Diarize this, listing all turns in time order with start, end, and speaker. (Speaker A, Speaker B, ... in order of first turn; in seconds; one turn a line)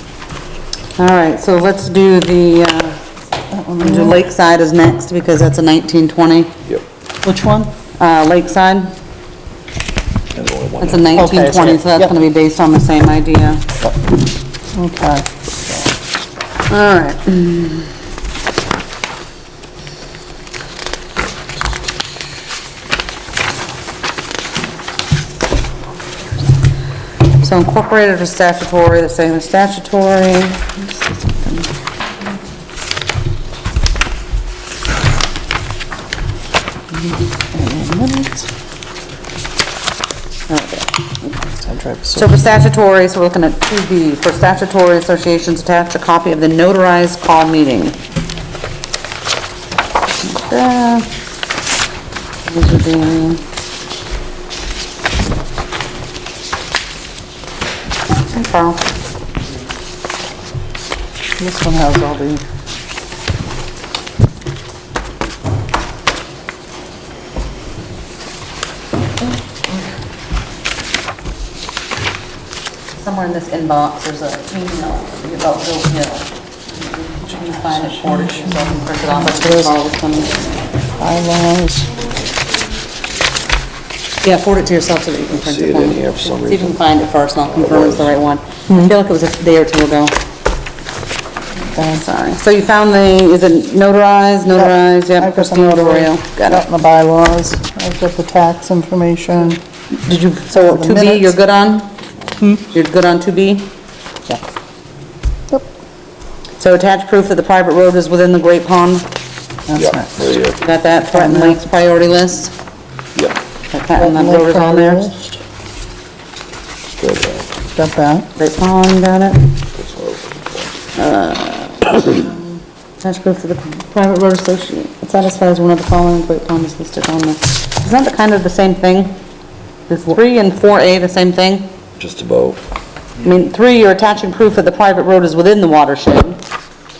Speaker A: 1.0-3.0
Speaker B: 3.5-4.2
Speaker A: 3.8-6.5
Speaker B: 7.2-7.7
Speaker A: 8.0-8.9
Speaker C: 10.3-11.7
Speaker A: 10.8-13.6
Speaker B: 11.1-12.1
Speaker B: 14.8-15.9
Speaker A: 16.7-17.9
Speaker A: 27.3-31.7
Speaker B: 37.5-38.5
Speaker A: 40.5-41.4
Speaker B: 41.6-42.3
Speaker A: 42.1-48.0
Speaker A: 50.2-51.1
Speaker A: 52.5-53.4
Speaker A: 58.3-58.8
Speaker B: 61.4-62.4
Speaker A: 73.0-80.3
Speaker B: 77.4-79.8
Speaker B: 81.0-82.0
Speaker A: 84.2-90.2
Speaker C: 85.3-86.8
Speaker C: 87.5-88.1
Speaker B: 88.7-88.9
Speaker B: 91.8-92.0
Speaker A: 91.9-96.7
Speaker B: 94.5-99.6
Speaker A: 99.9-101.9
Speaker B: 100.5-101.4
Speaker A: 102.7-103.7
Speaker A: 106.6-109.1
Speaker B: 109.7-110.3
Speaker C: 109.7-110.6
Speaker A: 110.6-112.5
Speaker B: 111.1-111.7
Speaker A: 113.7-115.1
Speaker B: 114.0-115.4
Speaker C: 117.0-117.5
Speaker B: 117.8-118.3
Speaker A: 118.4-119.5
Speaker C: 119.8-120.7
Speaker A: 121.0-122.4
Speaker A: 123.0-129.2
Speaker A: 129.9-131.7
Speaker C: 132.0-132.6
Speaker A: 133.2-136.4